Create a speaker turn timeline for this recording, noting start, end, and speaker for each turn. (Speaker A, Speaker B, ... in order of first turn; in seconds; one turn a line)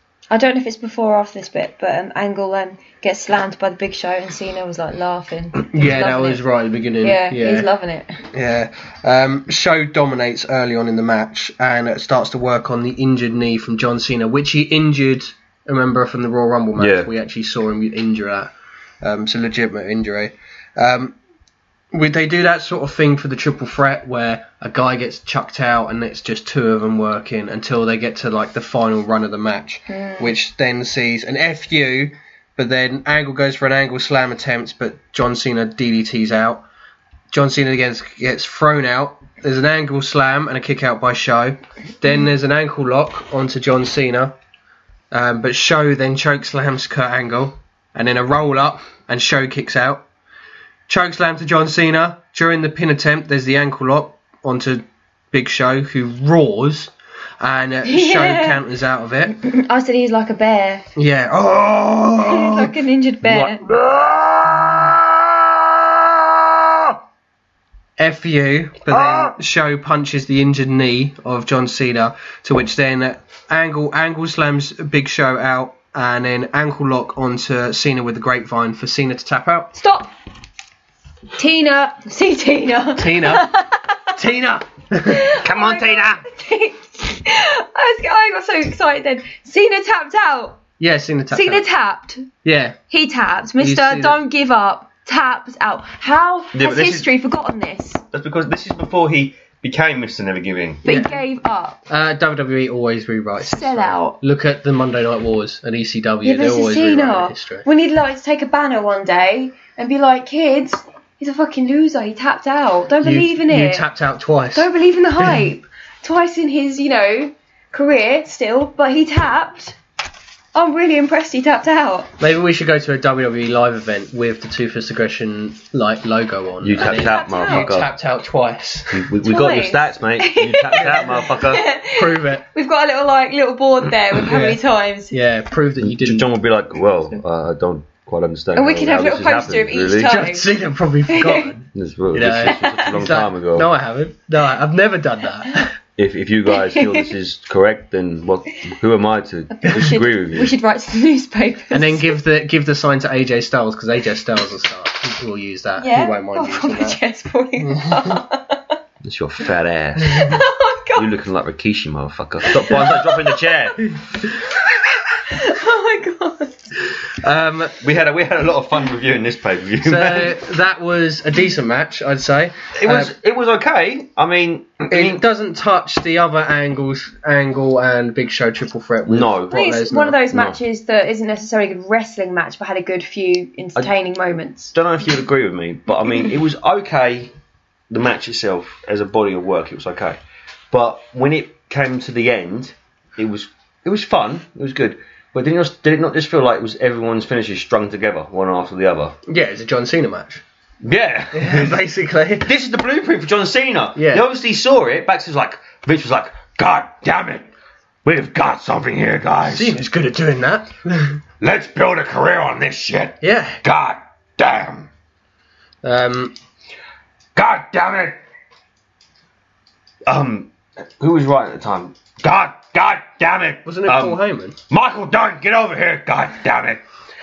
Speaker A: 0.3-6.4
Speaker B: 5.7-7.7
Speaker A: 7.0-8.2
Speaker B: 8.3-18.5
Speaker C: 16.8-17.1
Speaker B: 19.0-21.2
Speaker B: 21.9-36.6
Speaker A: 29.9-30.3
Speaker B: 37.3-44.3
Speaker B: 45.1-50.0
Speaker B: 50.9-59.3
Speaker A: 57.9-58.6
Speaker A: 59.3-60.9
Speaker B: 61.0-62.7
Speaker A: 62.2-63.6
Speaker C: 63.2-67.0
Speaker B: 68.0-79.7
Speaker C: 68.9-69.3
Speaker A: 79.8-80.1
Speaker A: 81.4-84.2
Speaker B: 83.0-83.5
Speaker B: 84.2-85.3
Speaker A: 85.0-90.6
Speaker C: 85.4-86.2
Speaker B: 90.8-91.6
Speaker A: 91.3-92.3
Speaker B: 92.4-92.8
Speaker A: 92.9-98.0
Speaker B: 93.6-94.2
Speaker C: 96.5-97.1
Speaker C: 98.1-100.8
Speaker A: 100.8-101.8
Speaker B: 100.9-101.2
Speaker B: 101.9-107.7
Speaker A: 103.4-104.2
Speaker A: 106.2-113.9
Speaker B: 113.0-114.7
Speaker A: 114.5-119.8
Speaker B: 115.2-115.5
Speaker A: 120.5-122.1
Speaker B: 122.2-129.0
Speaker C: 126.6-127.9
Speaker A: 126.8-127.8
Speaker C: 128.9-131.7
Speaker A: 129.2-135.1
Speaker B: 130.8-131.3
Speaker B: 131.9-132.4
Speaker B: 134.2-134.6
Speaker B: 135.1-136.3
Speaker C: 135.8-140.2
Speaker A: 138.6-140.5
Speaker B: 140.1-145.7
Speaker A: 141.1-141.5
Speaker C: 141.8-143.7
Speaker A: 142.5-142.9
Speaker C: 146.0-150.5
Speaker A: 146.5-147.1
Speaker A: 149.6-152.2
Speaker B: 151.7-157.0
Speaker A: 155.8-158.8
Speaker B: 157.7-158.2
Speaker C: 159.0-160.3
Speaker A: 160.1-161.1
Speaker C: 160.9-163.8
Speaker A: 162.7-163.4
Speaker A: 164.5-166.6
Speaker B: 166.9-167.8
Speaker C: 167.8-170.4
Speaker B: 169.8-173.1
Speaker C: 172.8-175.2
Speaker B: 174.9-180.2
Speaker C: 179.1-179.6
Speaker A: 179.5-184.7
Speaker C: 180.3-180.6
Speaker C: 184.7-187.3
Speaker C: 187.9-190.2
Speaker C: 190.7-199.2
Speaker B: 199.3-200.4
Speaker C: 200.8-201.8
Speaker B: 201.3-202.5
Speaker C: 202.4-207.5
Speaker B: 204.0-204.2
Speaker C: 208.0-209.8
Speaker B: 209.4-211.2
Speaker C: 211.4-214.9
Speaker B: 213.2-213.6
Speaker B: 215.8-216.3
Speaker C: 217.3-218.2
Speaker C: 220.1-224.2
Speaker B: 223.7-224.6
Speaker C: 224.7-226.8